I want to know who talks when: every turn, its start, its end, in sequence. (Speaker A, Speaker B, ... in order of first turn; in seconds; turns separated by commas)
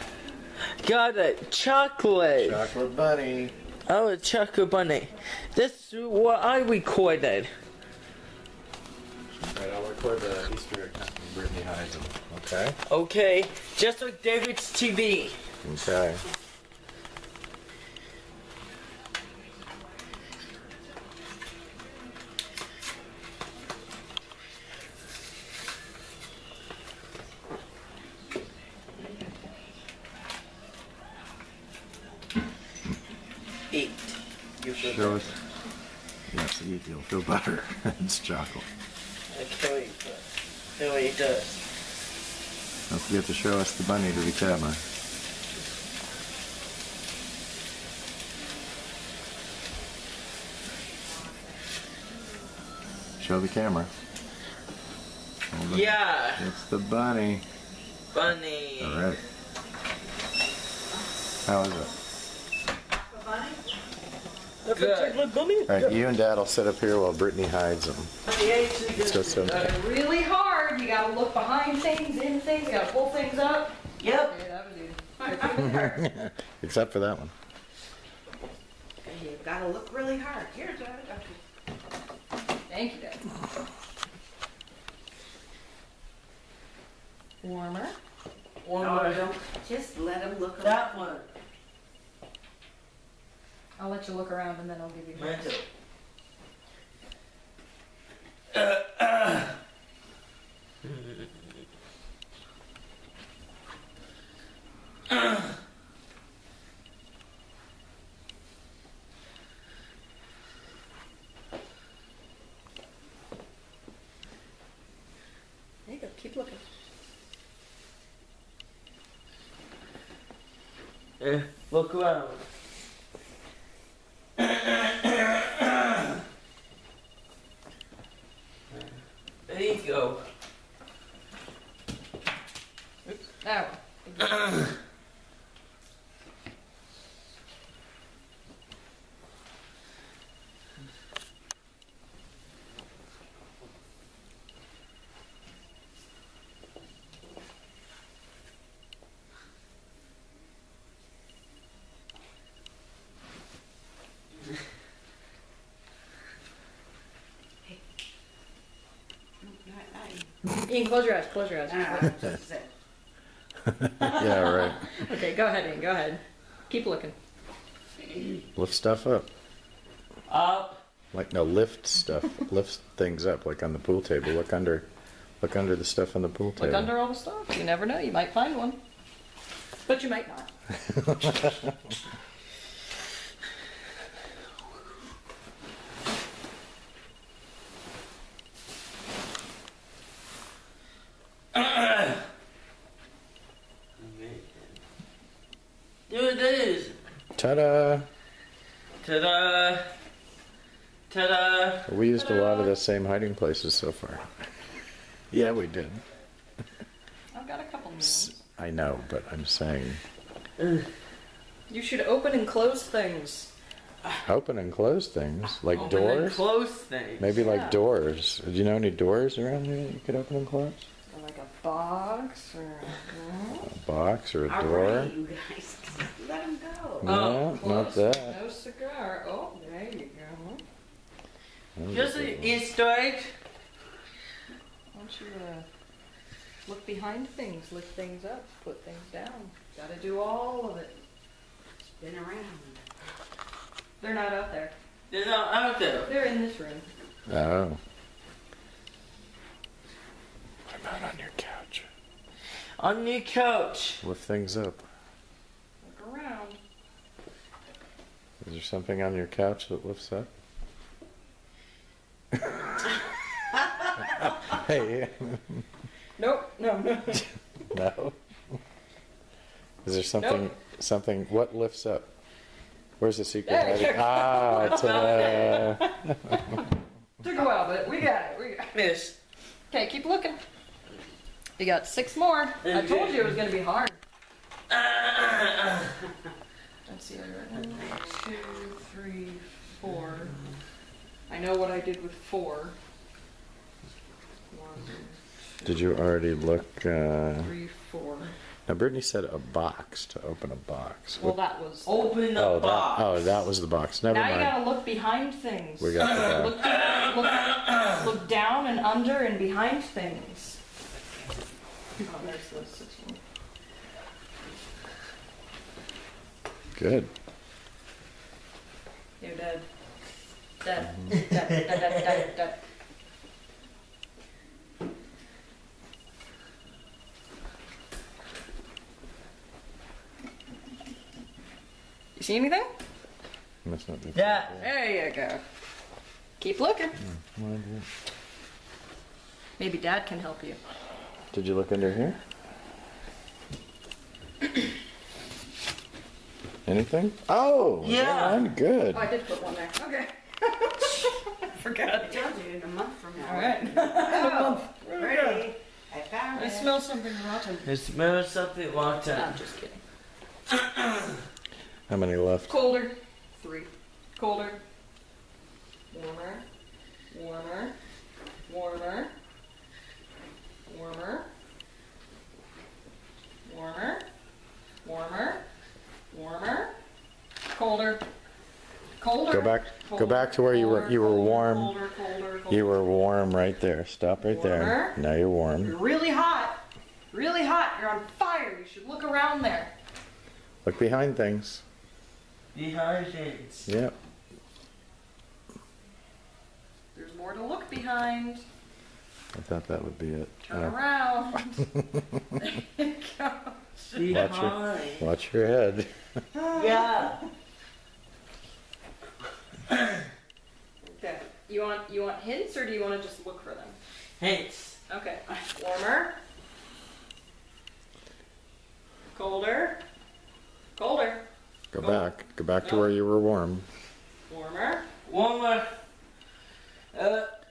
Speaker A: 0.8-2.6, Speaker B: 2.4-3.5, Speaker A: 3.9-7.5, Speaker B: 9.4-12.8, Speaker A: 12.9-15.4, Speaker B: 15.6-16.2, Speaker A: 33.7-35.2, Speaker B: 34.8-35.3, Speaker B: 36.3-38.7, Speaker A: 39.3-40.2, Speaker A: 40.8-41.5, Speaker B: 42.9-44.8, Speaker B: 53.2-53.9, Speaker B: 55.5-57.4, Speaker A: 55.7-56.5, Speaker A: 58.1-59.1, Speaker B: 58.8-59.2, Speaker B: 61.5-61.9, Speaker C: 63.0-63.6, Speaker A: 64.7-66.0, Speaker D: 64.8-65.2, Speaker B: 65.7-68.1, Speaker A: 68.2-69.7, Speaker B: 69.0-69.7, Speaker D: 69.4-75.9, Speaker A: 74.0-74.3, Speaker C: 75.3-75.9, Speaker B: 75.5-77.3, Speaker C: 79.0-81.4, Speaker D: 82.7-83.2, Speaker D: 87.4-88.0, Speaker A: 88.6-89.3, Speaker C: 88.8-91.1, Speaker A: 90.6-91.3, Speaker D: 93.8-95.5, Speaker A: 95.1-95.7, Speaker A: 98.5-99.5, Speaker D: 115.9-116.6, Speaker A: 121.2-122.4, Speaker A: 124.4-126.0, Speaker A: 128.7-130.2, Speaker D: 133.1-134.4, Speaker C: 159.4-160.5, Speaker D: 160.6-162.2, Speaker C: 161.7-162.7, Speaker B: 163.8-164.9, Speaker D: 164.9-167.2, Speaker B: 168.6-169.3, Speaker A: 170.3-170.8, Speaker B: 171.1-174.9, Speaker B: 175.4-176.9, Speaker D: 176.6-178.8, Speaker D: 179.9-180.5, Speaker B: 180.9-181.7, Speaker A: 191.5-192.2, Speaker A: 194.0-194.8, Speaker A: 196.1-197.0, Speaker B: 197.4-198.1, Speaker A: 199.0-199.9, Speaker A: 201.1-201.9, Speaker B: 201.9-204.3, Speaker D: 202.2-202.7, Speaker B: 205.3-206.0, Speaker D: 207.3-208.4, Speaker B: 208.0-210.0, Speaker A: 210.6-210.8, Speaker D: 211.7-213.5, Speaker B: 214.2-216.4, Speaker A: 215.7-217.3, Speaker D: 215.8-216.1, Speaker B: 217.2-220.9, Speaker D: 217.3-217.8, Speaker D: 221.1-223.7, Speaker B: 223.7-225.1, Speaker C: 224.5-227.2, Speaker B: 227.0-228.4, Speaker A: 227.0-227.5, Speaker D: 227.3-230.6, Speaker B: 231.8-232.6, Speaker A: 231.9-233.3, Speaker D: 234.9-235.7, Speaker D: 236.7-240.9, Speaker C: 241.8-242.9, Speaker D: 244.0-244.7, Speaker A: 245.1-246.1, Speaker D: 246.0-246.9, Speaker B: 247.3-247.8, Speaker B: 250.7-251.9, Speaker A: 252.8-254.0, Speaker B: 254.0-254.8, Speaker D: 255.8-256.6, Speaker B: 258.4-260.3, Speaker B: 262.4-262.9, Speaker B: 264.2-265.6, Speaker D: 266.2-267.3, Speaker B: 267.7-268.2, Speaker B: 269.8-272.1, Speaker D: 270.2-270.5, Speaker B: 273.0-276.6, Speaker D: 273.5-278.8, Speaker A: 274.5-275.7, Speaker A: 278.7-279.2, Speaker D: 279.7-280.4, Speaker D: 281.6-284.0, Speaker A: 282.6-283.3, Speaker A: 284.7-285.9, Speaker D: 286.9-290.3, Speaker D: 291.3-292.8, Speaker D: 294.5-295.9, Speaker B: 295.6-297.5, Speaker D: 297.4-298.3, Speaker B: 298.7-301.4, Speaker D: 301.2-302.1, Speaker A: 301.9-303.4, Speaker B: 302.4-304.6, Speaker D: 304.1-310.6, Speaker B: 305.8-306.6, Speaker D: 312.0-313.2, Speaker B: 316.8-317.1, Speaker D: 319.2-319.6, Speaker D: 320.6-322.6, Speaker B: 320.9-321.2, Speaker D: 332.2-332.7, Speaker B: 333.6-334.7, Speaker A: 334.1-334.5, Speaker D: 334.6-335.4, Speaker D: 336.4-337.0, Speaker B: 337.0-337.9, Speaker D: 339.6-340.6, Speaker B: 341.3-342.2, Speaker B: 346.7-349.1, Speaker A: 347.8-348.5, Speaker D: 348.9-352.3, Speaker C: 352.0-356.7, Speaker D: 353.2-355.5, Speaker D: 356.3-357.7, Speaker A: 357.6-359.4, Speaker D: 359.1-359.8, Speaker B: 361.9-362.6, Speaker D: 362.5-364.6, Speaker D: 365.9-366.4, Speaker D: 367.1-367.8, Speaker D: 368.5-369.1, Speaker D: 370.7-371.3, Speaker D: 373.4-374.1, Speaker D: 374.8-375.4, Speaker D: 376.1-376.7, Speaker D: 377.5-378.0, Speaker D: 379.0-382.8, Speaker B: 379.3-381.8, Speaker B: 382.5-385.8, Speaker D: 384.3-385.0, Speaker D: 385.6-386.6, Speaker D: 387.1-389.7, Speaker B: 390.6-391.6, Speaker A: 392.5-393.7, Speaker B: 393.7-393.9, Speaker D: 396.9-398.4, Speaker B: 399.3-400.8, Speaker D: 400.5-401.7, Speaker D: 402.4-404.3, Speaker A: 403.9-405.1, Speaker B: 404.1-405.9, Speaker A: 406.5-407.2, Speaker D: 410.8-413.8, Speaker A: 414.2-414.8, Speaker D: 414.9-416.2, Speaker D: 419.1-419.8, Speaker D: 420.8-421.2, Speaker B: 421.7-423.7, Speaker D: 421.8-422.1, Speaker D: 422.6-422.9, Speaker D: 424.3-424.9, Speaker A: 425.1-425.7, Speaker A: 426.9-427.3